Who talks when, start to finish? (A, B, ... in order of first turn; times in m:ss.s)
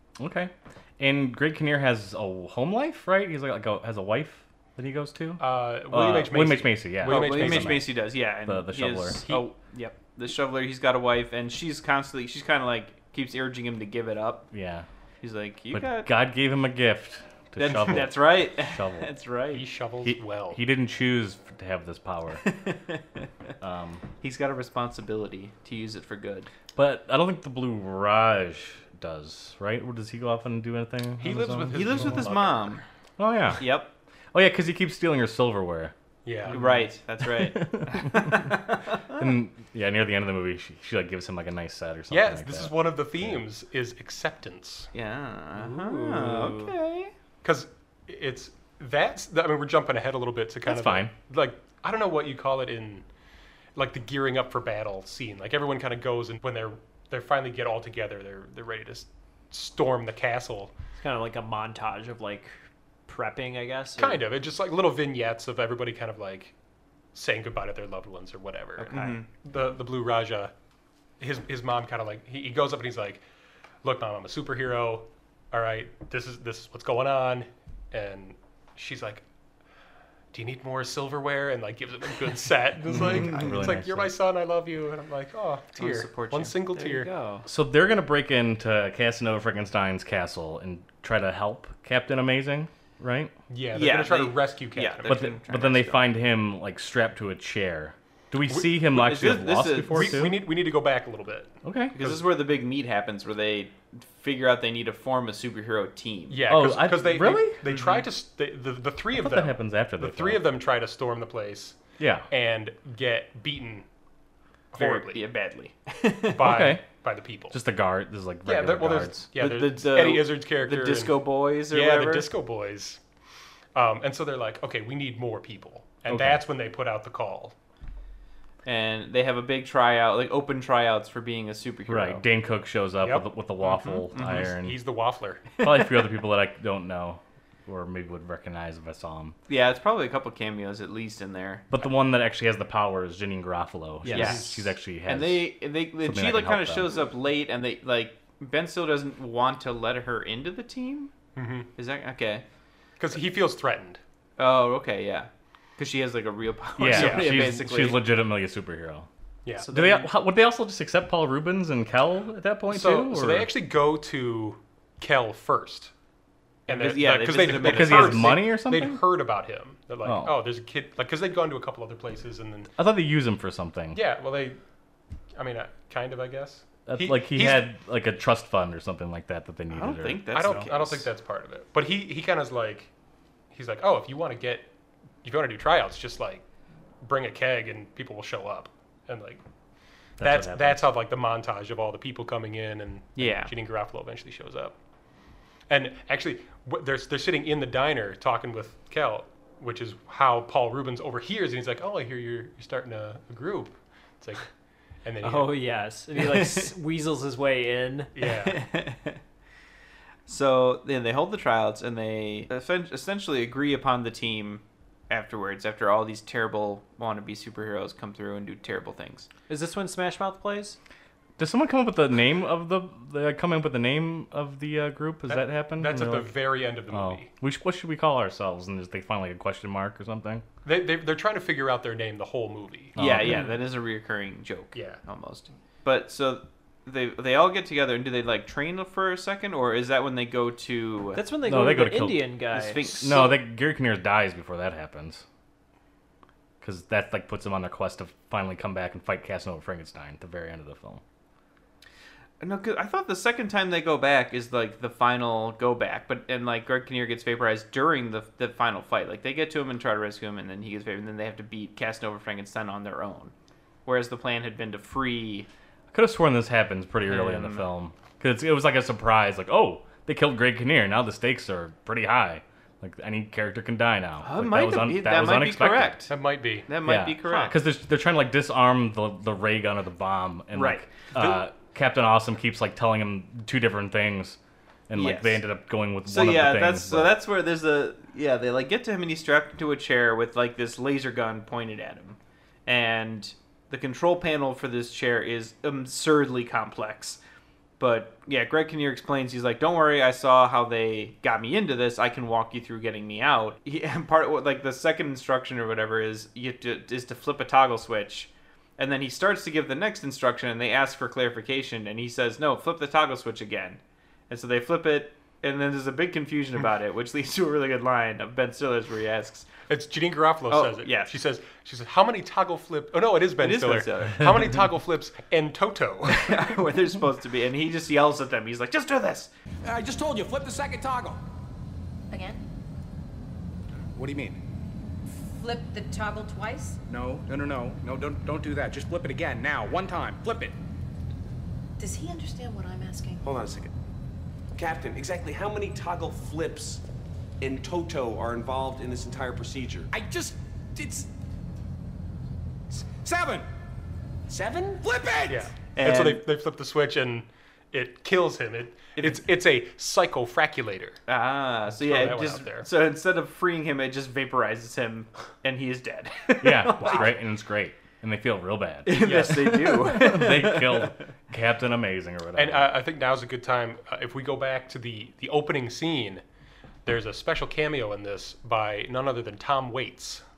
0:00.2-0:09.2 A
0:05.4-0:07.9 B
0:07.0-0:14.4 C
0:14.5-0:14.9 A
0:15.2-0:16.1 C
0:15.7-0:19.1 A
0:17.6-0:19.6 C
0:19.5-0:20.6 B
0:20.0-0:22.4 A
0:22.4-0:23.2 C
0:23.6-0:24.0 A
0:24.2-0:26.5 C
0:26.8-0:32.2 A
0:31.2-0:32.7 B
0:31.7-0:32.8 C
0:33.2-0:33.7 A
0:33.6-0:33.9 C
0:34.3-0:35.9 A
0:36.2-0:36.6 B
0:36.5-0:39.2 C
0:37.2-0:43.4 A
0:42.1-0:44.9 B
0:44.9-0:47.1 C
0:45.6-0:46.7 D
0:47.4-0:53.0 B
0:50.6-0:51.1 A
0:53.8-1:00.7 B
1:01.0-1:02.5 D
1:03.1-1:04.2 D
1:04.0-1:06.5 B
1:07.1-1:10.5 B
1:08.8-1:09.3 C
1:11.2-1:13.2 B
1:13.8-1:19.2 B
1:20.3-1:27.1 B
1:22.9-1:24.1 A
1:23.0-1:23.6 C
1:25.8-1:26.5 C
1:26.7-1:27.4 D
1:27.4-1:33.3 A
1:33.5-1:35.3 B
1:33.7-1:36.1 C
1:35.0-1:40.4 A
1:38.5-1:42.3 B
1:38.9-1:40.3 C
1:41.6-1:41.9 A
1:41.9-1:46.4 C
1:46.3-1:51.8 B
1:46.5-1:47.9 A
1:49.1-1:50.4 A
1:52.0-1:52.3 A
1:52.3-1:53.8 B
1:54.7-1:55.2 B
1:54.8-1:56.7 C
1:56.3-1:57.6 B
1:56.4-1:56.8 A
1:57.5-1:59.2 A
1:58.4-2:03.0 B
1:59.3-2:02.3 C
2:03.7-2:07.5 B
2:06.1-2:06.4 A
2:08.6-2:12.2 C
2:11.9-2:14.8 A
2:13.0-2:15.6 B
2:14.1-2:14.5 C
2:15.6-2:19.4 A
2:19.5-2:21.7 C
2:21.7-2:27.0 A
2:24.1-2:31.1 C
2:24.1-2:24.5 B
2:31.3-2:31.7 B
2:31.8-2:32.4 C
2:33.0-2:34.0 B
2:34.4-2:38.0 C
2:36.8-2:39.1 A
2:36.9-2:37.5 B
2:39.6-2:40.1 C
2:39.7-2:43.5 A
2:42.7-2:45.9 B
2:46.7-2:48.4 C
2:46.7-2:52.7 B
2:47.6-2:49.0 A
2:50.0-2:50.4 A
2:52.8-2:54.0 A
2:53.9-2:54.6 B
2:55.3-2:57.7 B
2:56.9-3:00.6 A
2:59.7-3:01.1 C
3:00.3-3:02.9 B
3:03.5-3:04.7 B
3:05.2-3:06.4 B
3:07.0-3:09.4 B
3:10.2-3:10.9 A
3:10.2-3:14.7 B
3:13.2-3:13.5 C
3:15.7-3:24.5 B
3:25.0-3:25.6 B
3:25.2-3:28.1 D
3:26.2-3:26.7 C
3:28.1-3:28.6 B
3:28.4-3:29.2 C
3:30.3-3:39.3 C
3:39.5-3:40.8 D
3:41.4-3:50.4 A
3:45.3-3:47.3 B
3:50.6-3:53.0 B
3:52.9-3:53.4 A
3:53.0-4:01.2 C
3:53.2-3:53.6 D
3:54.7-3:55.0 B
4:01.2-4:03.0 D
4:01.4-4:05.2 A
4:02.5-4:03.4 C
4:06.6-4:11.0 A
4:12.4-4:23.3 C
4:23.8-4:25.5 C
4:25.9-4:36.0 A
4:27.1-4:27.6 C
4:34.2-4:36.1 C
4:36.1-4:36.7 B
4:36.7-4:37.5 C
4:36.8-4:47.1 A
4:40.6-4:40.8 C
4:41.1-4:41.4 B
4:44.9-4:45.4 C
4:46.0-4:57.2 C
4:57.8-5:19.5 C
5:19.7-5:26.5 B
5:20.5-5:21.1 C
5:23.4-5:24.3 C
5:26.1-5:29.3 C
5:29.6-5:31.2 E
5:32.1-5:32.4 F
5:33.9-5:34.4 E
5:35.4-5:36.8 F
5:36.9-5:40.5 E
5:41.8-5:43.2 F
5:43.2-5:43.7 G
5:44.5-5:46.8 G
5:47.4-5:49.9 G
5:49.9-5:51.1 E
5:52.7-5:53.4 E
5:54.3-5:55.5 E
5:55.3-6:01.0 B
5:55.8-5:56.2 C
5:59.0-5:59.2 C
6:01.1-6:07.1 C
6:01.7-6:02.7 B
6:06.4-6:12.7 A
6:08.8-6:10.9 C
6:12.3-6:16.2 B
6:16.8-6:20.2 B